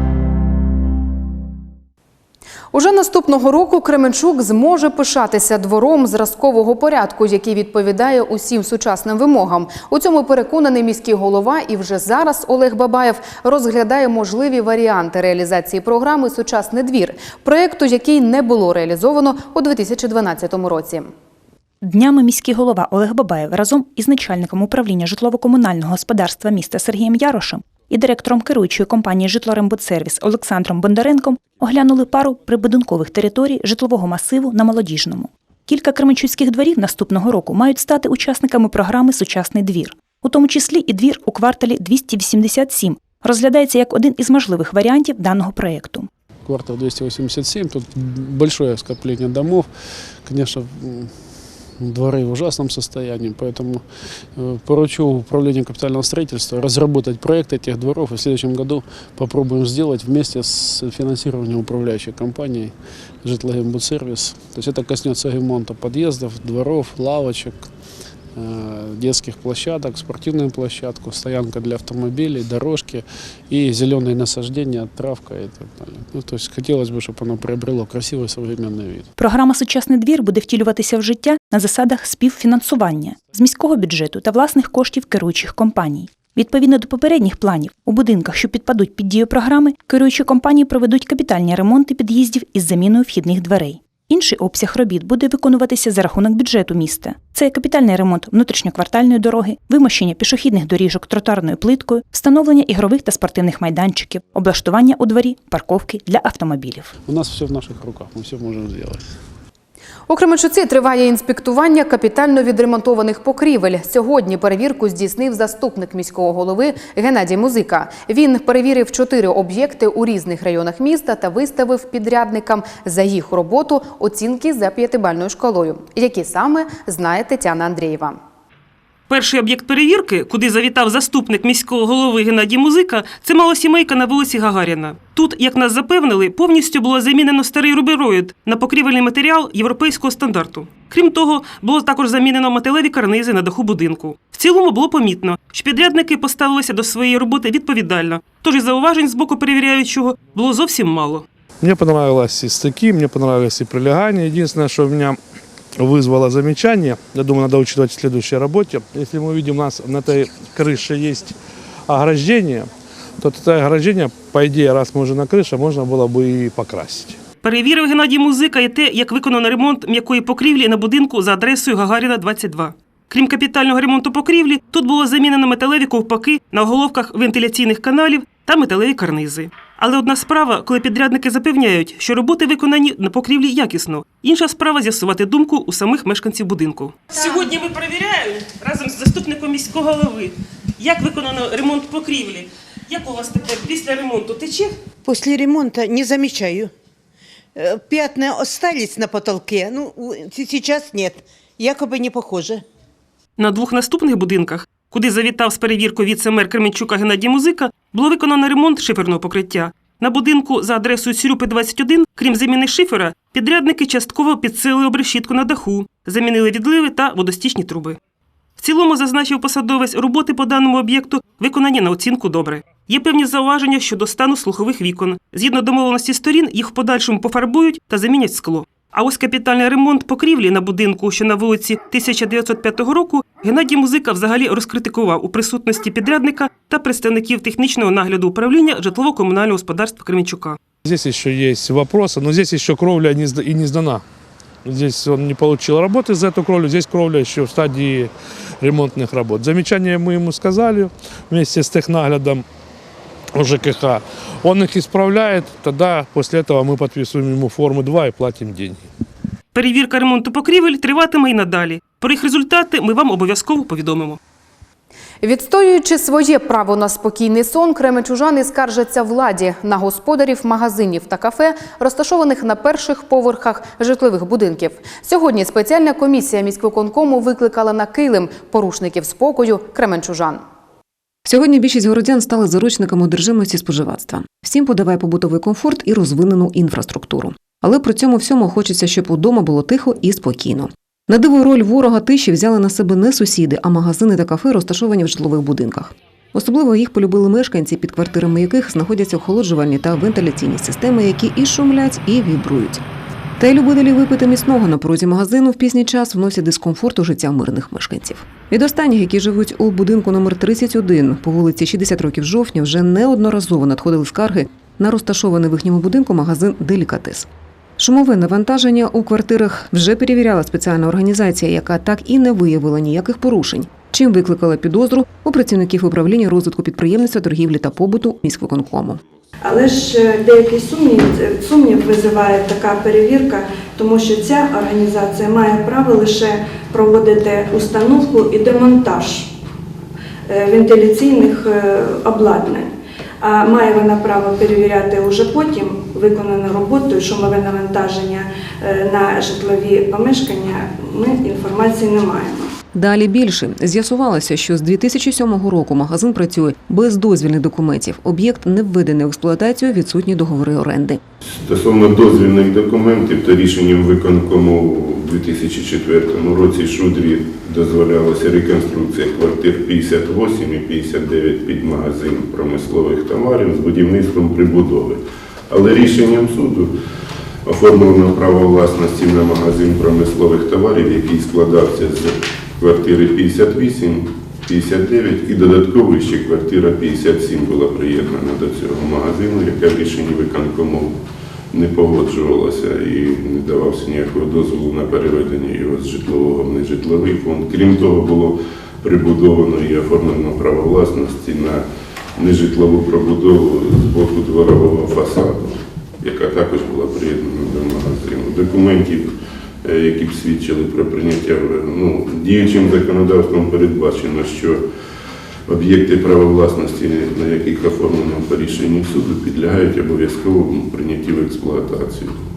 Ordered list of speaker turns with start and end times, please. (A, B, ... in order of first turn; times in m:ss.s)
0:02.7-0:21.1 A
0:21.8-0:46.1 B
0:46.5-1:07.7 C
1:08.4-1:19.1 C
1:19.2-1:47.0 B
1:47.1-1:49.1 C
1:50.1-2:08.2 A
2:09.1-2:31.2 D
2:31.6-2:35.2 E
2:35.8-2:41.3 E
2:41.9-2:47.2 E
2:47.4-3:14.7 D
3:15.0-3:16.7 F
3:17.6-3:22.6 F
3:23.4-3:38.0 D
3:38.6-4:00.6 D
4:00.8-4:04.0 E
4:04.6-4:12.4 E
4:13.3-4:18.8 E
4:19.5-4:24.2 D
4:25.2-4:40.4 A
4:41.3-5:02.8 G
5:03.4-5:29.0 G
5:29.4-5:39.3 H
5:40.3-5:52.5 H
5:52.8-6:01.0 G
6:01.3-6:16.7 I
6:17.4-6:31.0 I
6:31.5-6:41.6 I
6:42.2-6:54.6 I
6:55.5-7:02.1 I